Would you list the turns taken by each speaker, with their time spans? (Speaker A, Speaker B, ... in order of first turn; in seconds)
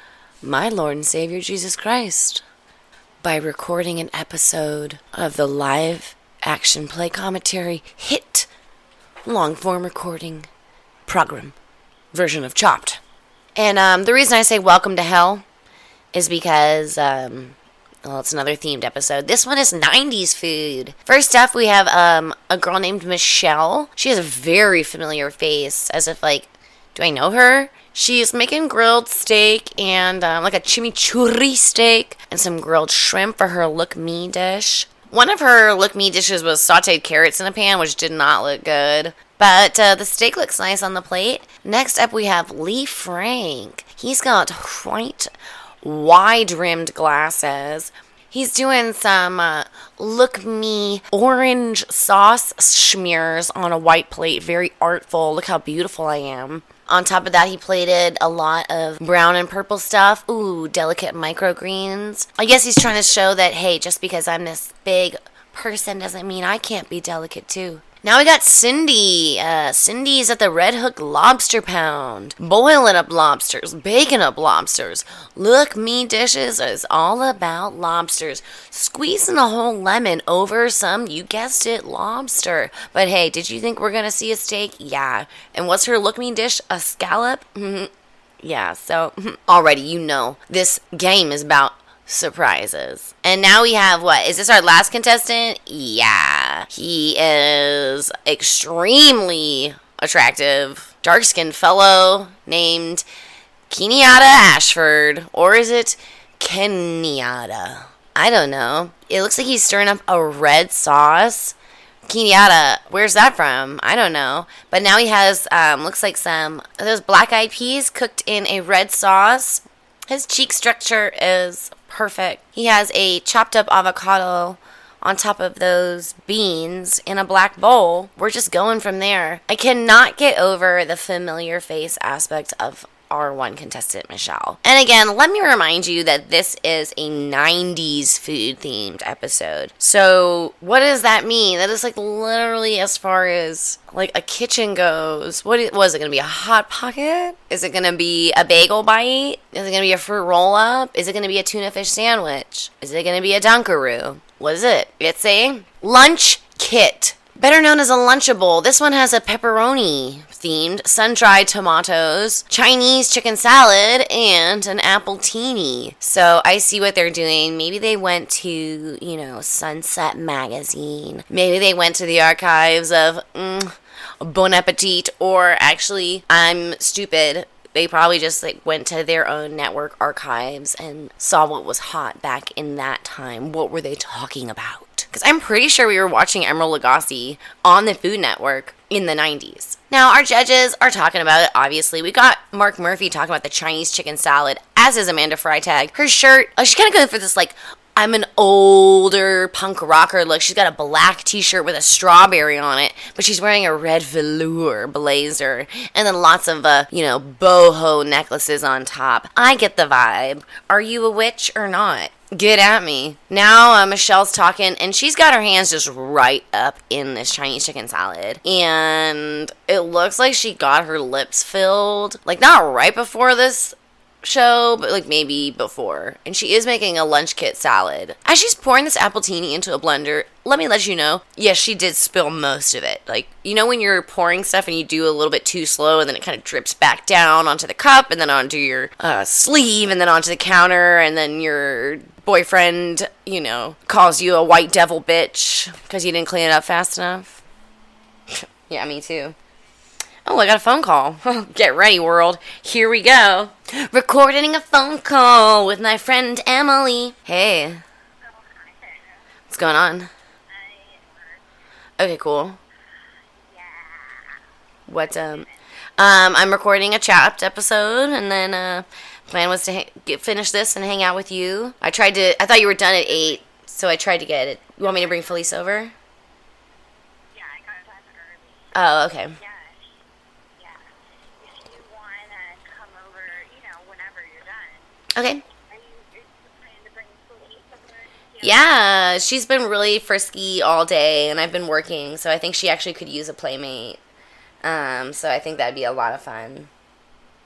Speaker A: 0.4-2.4, 3.2-8.5, 9.2-10.5, 11.1-11.5, 12.1-13.0, 13.6-15.4, 16.1-45.3, 45.8-87.9, 88.4-103.0, 103.7-111.5, 112.1-247.4, 248.3-249.3, 250.2-257.8, 259.5-260.1, 262.0-262.6, 264.9-265.4, 266.0-275.9, 278.7-279.4, 285.1-285.4, 288.4-294.0, 294.6-296.7
Speaker B: 258.2-259.2, 260.5-261.4, 262.9-264.4, 265.0-265.5, 274.8-275.5, 277.3-278.7, 279.4-280.0, 280.6-285.0, 285.6-288.7